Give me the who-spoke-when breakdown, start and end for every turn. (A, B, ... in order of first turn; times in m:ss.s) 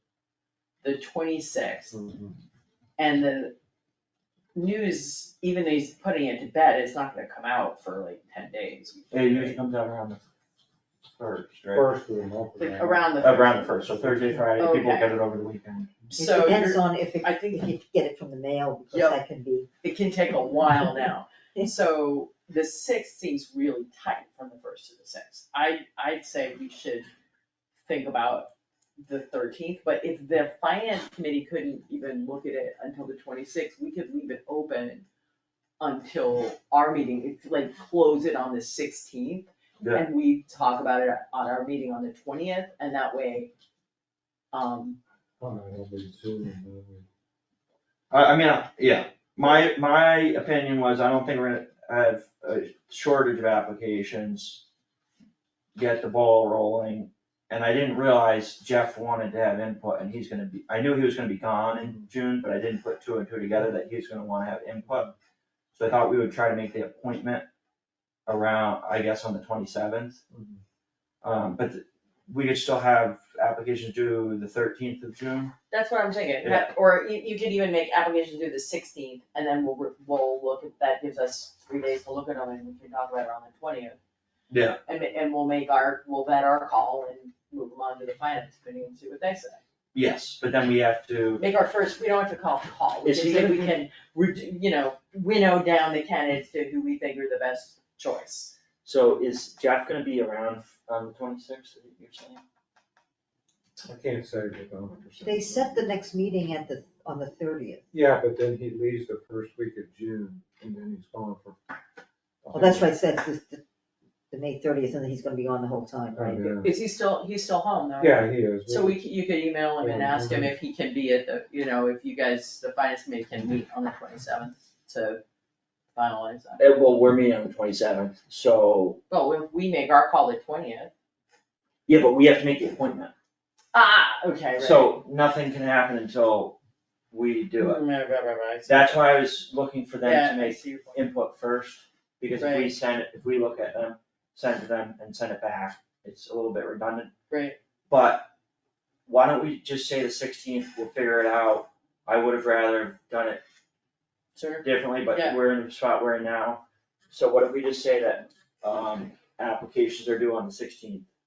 0:00.8-0:01.9 A
0:01.9-0:02.4 B
0:03.0-0:03.5 A
0:04.5-0:09.6 A
0:09.1-0:10.2 C
0:11.2-0:11.8 C
0:11.7-0:13.1 B
0:12.6-0:13.9 A
0:13.2-0:16.0 C
0:14.0-0:14.5 B
0:14.6-0:15.1 A
0:16.1-0:17.7 A
0:16.2-0:19.7 D
0:18.9-0:19.2 A
0:19.8-0:27.1 A
0:27.8-0:35.0 A
0:35.8-0:43.5 A
0:44.5-0:45.0 A
0:45.4-0:47.1 B
0:48.1-0:54.6 C
0:55.7-1:05.1 C
1:04.8-1:05.1 B
1:05.8-1:07.4 C
1:08.3-1:10.2 C
1:10.3-1:10.6 B
1:11.2-1:15.5 C
1:15.7-1:24.0 A
1:16.4-1:16.7 C
1:24.5-1:24.8 C
1:24.8-1:29.6 A
1:29.9-1:31.5 C
1:31.4-1:38.5 A
1:33.0-1:33.7 C
1:38.8-1:42.4 C
1:43.8-1:45.7 B
1:45.2-1:47.8 D
1:47.9-1:51.6 B
1:52.4-1:52.9 B
1:52.5-1:53.6 D
1:54.3-1:56.5 D
1:56.2-1:56.7 B
1:56.6-2:05.2 A
1:58.0-1:59.0 B
1:59.8-2:00.5 B
2:05.9-2:06.6 A
2:06.6-2:09.0 C
2:09.1-2:10.9 A
2:11.9-2:13.1 C
2:13.7-2:15.0 A
2:14.6-2:16.6 C
2:17.1-2:17.8 C
2:17.6-2:19.2 A
2:18.7-2:27.1 C
2:20.0-2:21.0 A
2:22.3-2:22.7 A
2:27.3-2:27.6 A
2:27.9-2:28.3 C
2:29.0-2:33.4 C
2:34.3-2:35.4 A
2:34.6-2:41.1 C